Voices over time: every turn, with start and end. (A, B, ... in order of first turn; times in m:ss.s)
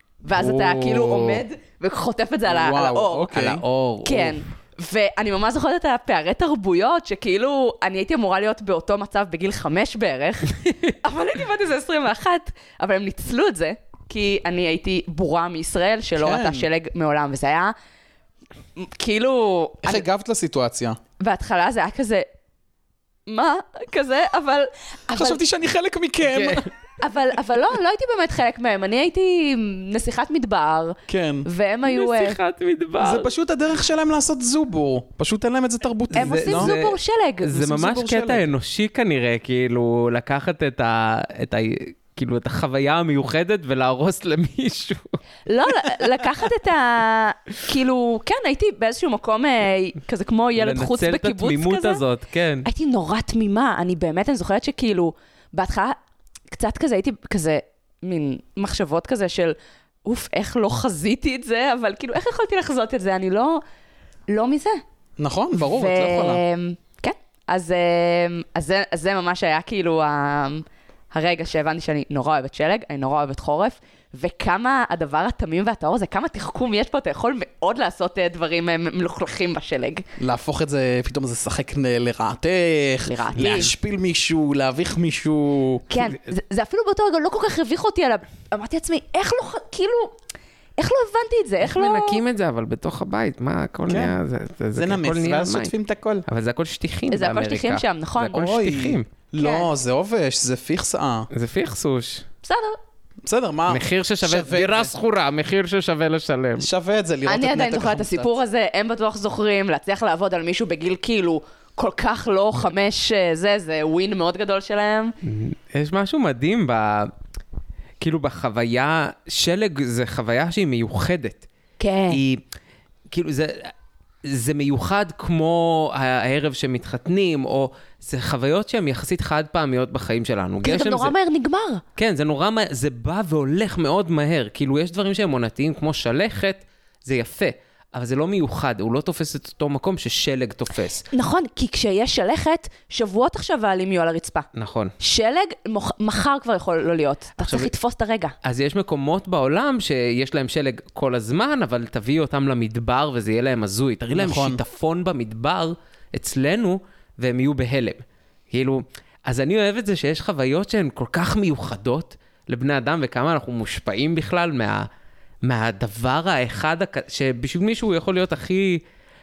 0:00.2-0:03.3 A
0:00.3-0:01.4 B
0:02.5-0:03.6 C
0:03.3-0:04.4 B
0:04.0-0:17.8 A
0:16.2-0:16.7 C
0:18.8-0:20.0 A
0:19.8-0:21.0 C
0:21.2-0:22.3 A
0:23.3-0:25.4 A
0:25.1-0:26.7 C
0:26.3-0:26.6 B
0:27.0-0:32.4 A
0:31.1-0:31.5 C
0:31.9-0:33.3 B
0:33.0-0:36.7 C
0:36.1-0:45.2 B
0:36.2-0:37.7 A
0:37.5-0:38.5 C
0:45.5-0:52.0 A
0:50.6-0:52.7 B
0:52.6-0:56.0 A
0:56.5-1:03.6 A
1:04.3-1:04.8 A
1:05.2-1:06.4 C
1:05.5-1:20.1 A
1:20.2-1:25.9 C
1:23.1-1:23.7 A
1:25.9-1:30.2 A
1:30.8-1:32.2 A
1:31.6-1:35.7 B
1:33.9-1:34.2 C
1:34.8-1:36.2 C
1:36.3-1:39.1 B
1:37.1-1:38.4 A
1:38.3-1:41.3 C
1:39.4-1:39.7 A
1:41.3-1:42.3 B
1:42.4-1:42.8 A
1:43.2-1:44.9 C
1:43.7-1:46.7 B
1:46.6-1:48.3 C
1:47.3-1:55.2 A
1:55.2-1:57.1 B
1:58.0-2:01.5 B
2:01.8-2:02.2 A
2:02.1-2:02.4 B
2:03.1-2:03.7 B
2:04.2-2:11.1 B
2:10.6-2:11.8 A
2:12.0-2:21.0 B
2:21.1-2:24.5 A
2:24.6-2:24.9 B
2:25.0-2:28.4 A
2:27.4-2:27.7 B
2:28.4-2:44.9 B
2:34.1-2:34.6 C
2:45.4-2:48.8 B